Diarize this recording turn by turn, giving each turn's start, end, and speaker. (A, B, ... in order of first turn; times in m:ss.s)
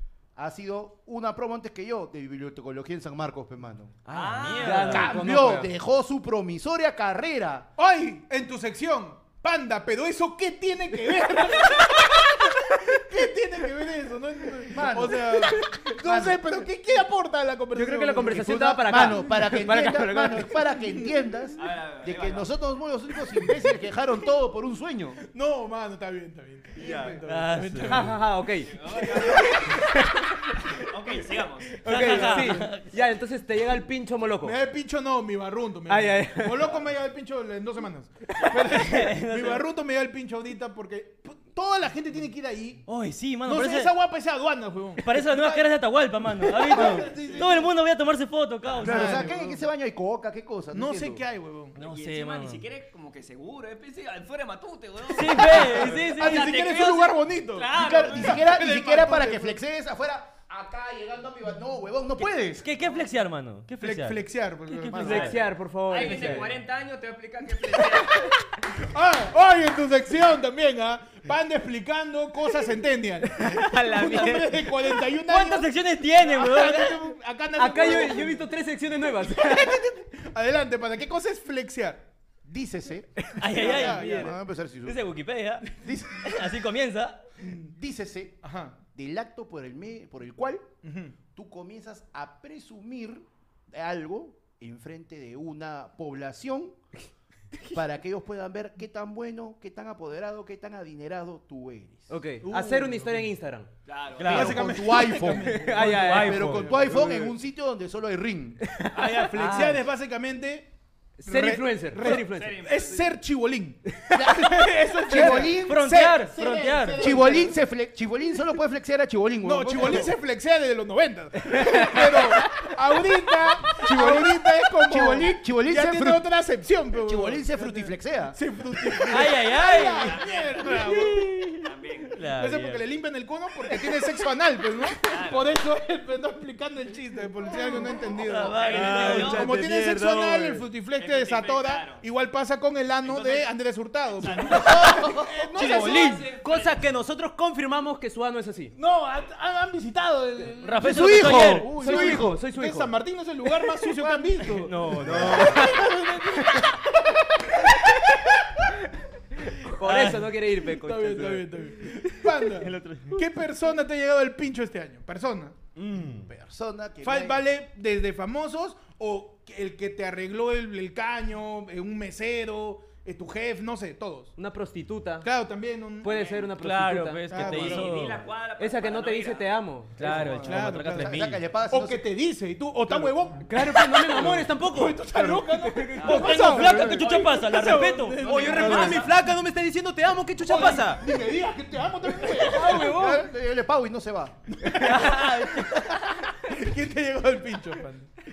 0:00.4-0:04.0 A
0:04.1-0:05.0 B
0:04.1-0:05.3 C
0:04.1-0:05.7 D
0:04.9-0:07.7 A
0:07.8-0:18.6 E
0:14.7-0:16.4 A
0:17.7-0:20.6 D
0:18.2-0:25.2 A
0:21.6-0:22.5 B
0:25.2-0:28.2 E
0:26.8-0:27.2 D
0:27.2-0:28.1 C
0:27.8-0:30.5 D
0:28.6-0:29.8 B
0:29.2-0:29.5 E
0:30.7-0:32.4 B
0:31.8-0:34.6 D
0:31.8-0:32.9 C
0:32.0-0:32.6 E
0:34.4-0:42.9 E
0:35.9-0:36.8 D
0:38.5-0:39.6 C
0:42.8-0:43.9 C
0:43.4-0:45.7 E
0:45.0-0:49.3 C
0:46.4-0:47.7 E
0:46.8-0:47.1 A
0:48.8-0:49.6 E
0:48.8-0:51.2 A
0:50.7-0:51.8 E
0:51.7-0:52.6 C
0:51.8-0:58.4 B
0:55.1-0:56.8 C
0:55.3-0:59.6 E
0:57.7-1:02.8 A
1:02.6-1:05.4 C
1:03.8-1:05.4 E
1:04.9-1:06.6 D
1:05.0-1:05.3 A
1:05.9-1:08.3 B
1:06.0-1:06.4 E
1:06.0-1:06.4 C
1:08.8-1:18.4 E
1:13.4-1:14.7 D
1:15.2-1:17.0 C
1:17.6-1:19.8 D
1:19.2-1:22.1 E
1:22.4-1:25.0 A
1:23.2-1:24.3 D
1:23.4-1:24.3 C
1:23.5-1:24.3 E
1:24.8-1:27.2 C
1:25.7-1:26.4 A
1:27.4-1:27.7 E
1:27.5-1:28.4 A
1:28.4-1:28.8 E
1:28.9-1:30.7 A
1:30.8-1:31.2 E
1:31.3-1:36.8 A
1:37.7-1:42.1 A
1:42.1-1:43.7 D
1:42.4-1:43.3 E
1:43.8-1:44.6 B
1:44.2-1:44.7 C
1:44.2-1:47.0 E
1:44.2-1:48.7 A
1:45.3-1:47.3 D
1:45.7-1:46.7 C
1:48.7-1:49.6 D
1:48.9-1:50.7 E
1:49.3-1:49.8 C
1:51.2-1:52.6 D
1:51.2-1:57.6 E
1:52.1-1:53.1 B
1:54.1-1:56.0 A
1:55.1-1:57.2 C
1:57.0-2:00.1 A
1:59.4-2:11.5 E
2:01.5-2:02.3 D
2:03.8-2:06.3 A
2:06.9-2:08.4 A
2:09.0-2:10.2 C
2:09.8-2:12.2 B
2:10.8-2:12.8 C
2:12.3-2:26.2 E
2:15.0-2:15.5 B
2:17.8-2:19.6 B
2:18.2-2:19.5 C
2:18.7-2:20.7 D
2:21.0-2:22.0 B
2:23.0-2:23.5 B
2:24.1-2:26.8 B
2:24.4-2:25.5 A
2:25.6-2:26.2 C
2:26.2-2:28.7 D
2:28.7-2:37.1 E
2:30.6-2:31.7 C
2:30.8-2:32.4 A
2:31.4-2:32.9 D
2:34.5-2:35.9 C
2:34.9-2:36.7 D
2:39.6-2:42.3 D
2:39.8-2:40.3 C
2:40.7-2:45.6 E
2:42.5-2:43.2 C
2:45.8-2:46.3 C
2:46.2-2:47.4 A
2:47.0-2:54.3 E
2:54.4-2:55.3 D
2:55.2-2:56.2 E
2:56.0-2:57.9 D
2:56.0-2:56.5 B
2:56.5-2:58.2 C
2:57.3-2:57.9 E
2:57.3-2:59.5 B
2:58.6-3:00.4 D
3:00.0-3:01.4 C
3:00.0-3:02.0 A
3:00.4-3:09.1 E
3:02.8-3:03.1 A
3:03.4-3:06.6 D
3:05.1-3:05.5 A
3:06.0-3:07.5 B
3:06.0-3:09.0 C
3:08.2-3:09.1 B
3:08.2-3:11.0 D
3:10.4-3:13.2 E
3:12.2-3:13.3 D
3:12.6-3:14.4 A
3:14.5-3:18.1 E
3:14.7-3:16.0 C